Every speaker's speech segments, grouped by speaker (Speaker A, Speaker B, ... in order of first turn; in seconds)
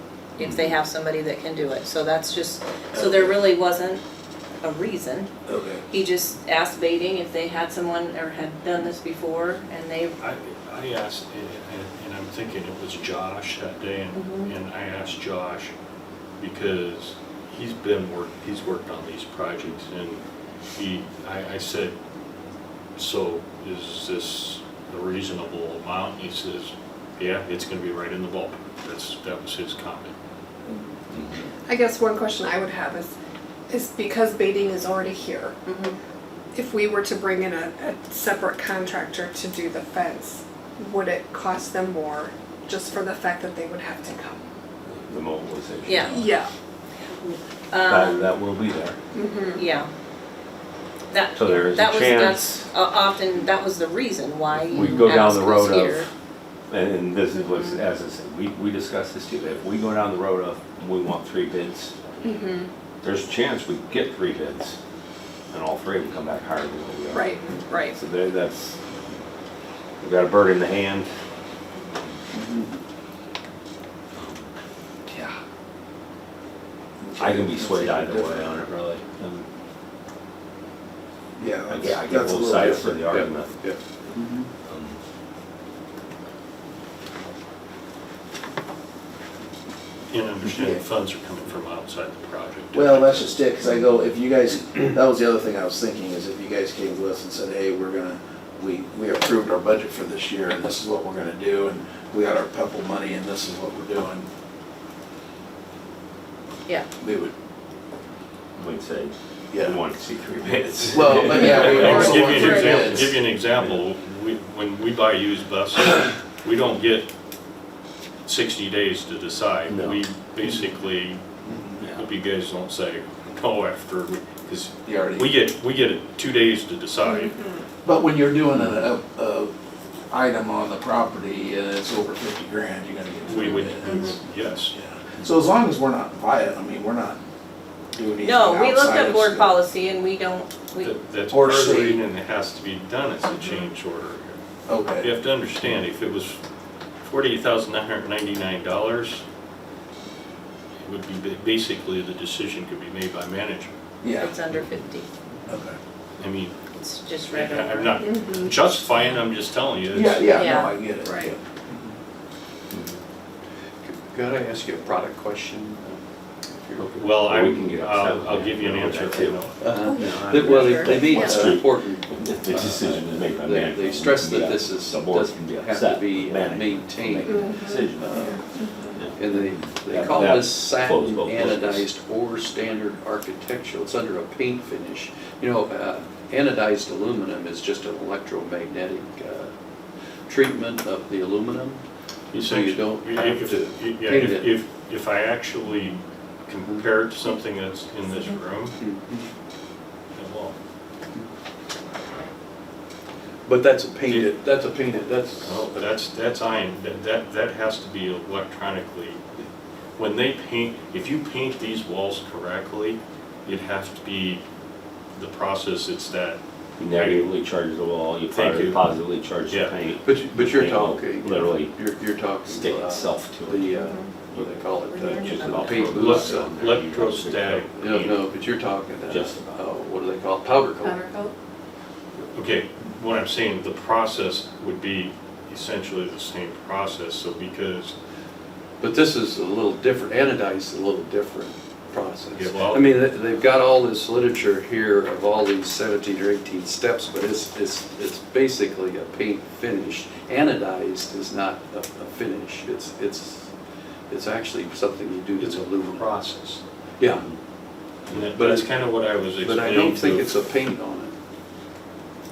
Speaker A: 0.4-4.0, 4.6-5.3, 5.9-10.2, 14.1-14.5, 35.6-35.9, 45.9-46.2, 47.2-48.3, 49.5-49.9, 51.1-56.1, 111.3-113.1, 133.8-134.1, 138.2-140.9, 154.2-155.1, 156.8-158.1, 160.3-160.7, 170.4-170.9, 224.9-225.7, 230.8-231.3
Speaker B: 2.9-3.4, 5.5-5.8, 72.3-72.8, 75.1-75.3, 77.0-78.5, 81.4-83.0, 84.2-84.5, 90.5-90.8, 92.7-104.2, 107.0-107.3, 109.5-109.8, 110.9-113.1, 121.5-121.8, 124.8-125.3, 127.9-129.5, 131.2-134.0, 134.7-137.2, 138.7-139.3, 141.3-142.0, 144.7-145.1, 154.0-154.3, 155.5-155.8, 159.9-161.9
Speaker C: 10.2-15.7, 16.4-20.2, 20.8-21.9, 23.0-30.1, 90.1-93.4, 111.4-117.1, 118.2-121.2, 121.8-127.4, 133.2-134.7, 140.8-144.4, 145.0-146.4, 147.0-149.2, 150.8-153.8, 156.2-156.6, 157.3-160.3, 167.0-169.6, 192.3-198.8, 200.1-200.6, 204.1-204.3, 205.4-209.2, 210.0-214.4, 215.1-217.3, 218.3-218.8, 219.5-219.8, 225.8-228.2, 232.3-237.9, 242.3-243.1, 255.4-256.6, 258.1-260.4
Speaker D: 31.7-33.1, 33.7-35.6, 36.5-44.4, 46.1-46.5, 49.1-49.6, 62.2-62.7, 67.1-68.0, 111.3-112.2, 129.1-129.4, 130.1-131.2, 132.5-132.8, 138.0-138.7, 158.0-158.4, 161.0-161.3, 171.2-171.4, 177.3-178.9
Speaker E: 44.9-46.3, 47.9-49.0, 51.4-52.7, 54.5-56.1, 56.7-61.9, 63.0-64.8, 65.5-69.2, 70.0-71.1, 74.1-74.5, 77.2-79.5, 81.7-83.6, 84.6-85.0, 108.5-112.2, 119.7-120.0, 162.7-163.0, 166.8-178.4, 178.9-181.9, 216.8-221.7, 222.4-227.7, 229.1-229.4
Speaker F: 82.6-83.8, 163.8-166.0, 166.6-167.1, 169.6-178.4, 179.1-189.5, 190.3-191.8, 192.3-194.5, 198.8-199.2, 203.4-205.7, 220.0-226.6, 227.8-231.1, 238.8-253.5, 254.1-256.1, 257.0-257.3, 258.3-258.7, 259.3-261.1